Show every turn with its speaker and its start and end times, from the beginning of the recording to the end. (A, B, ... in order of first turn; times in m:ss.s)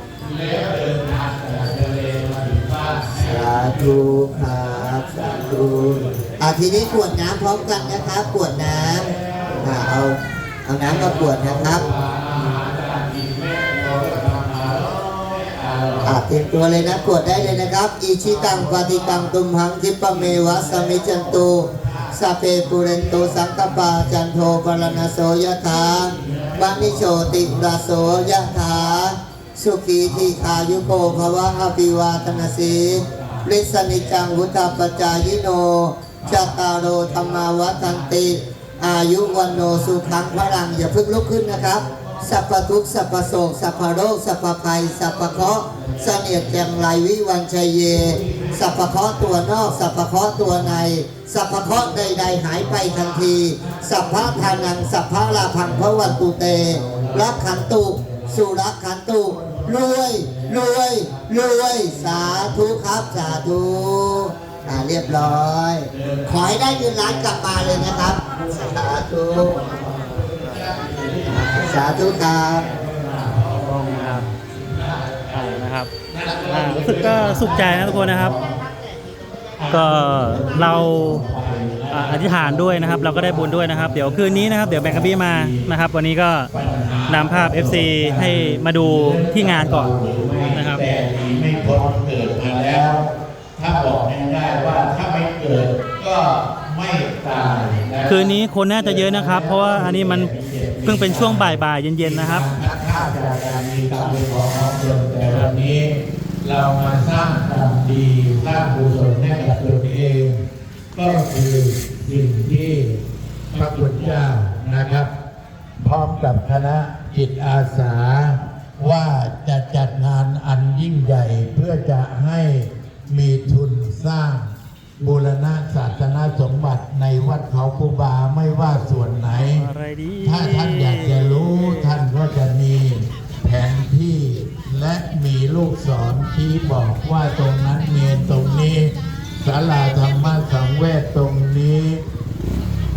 0:00.2-0:10.1 A
0:03.2-0:09.1 B
0:09.6-0:11.8 B
0:10.8-0:19.4 A
0:16.0-1:09.6 B
0:20.0-0:29.2 A
0:30.0-0:35.5 A
0:36.2-0:46.9 A
0:47.8-0:51.0 A
0:51.5-0:58.7 A
0:59.2-1:18.6 A
1:11.3-1:12.6 B
1:12.6-1:14.3 C
1:15.3-1:15.9 C
1:16.5-1:18.3 C
1:18.2-1:21.0 B
1:19.6-1:25.7 A
1:19.7-1:21.2 C
1:21.9-1:26.5 C
1:26.5-1:53.0 A
1:27.1-1:29.9 C
1:30.5-1:31.1 C
1:38.0-1:40.3 C
1:40.8-1:42.5 C
1:45.3-1:45.6 C
1:53.5-1:55.1 A
1:55.8-2:09.7 A
2:09.2-2:12.0 C
2:10.2-2:22.0 A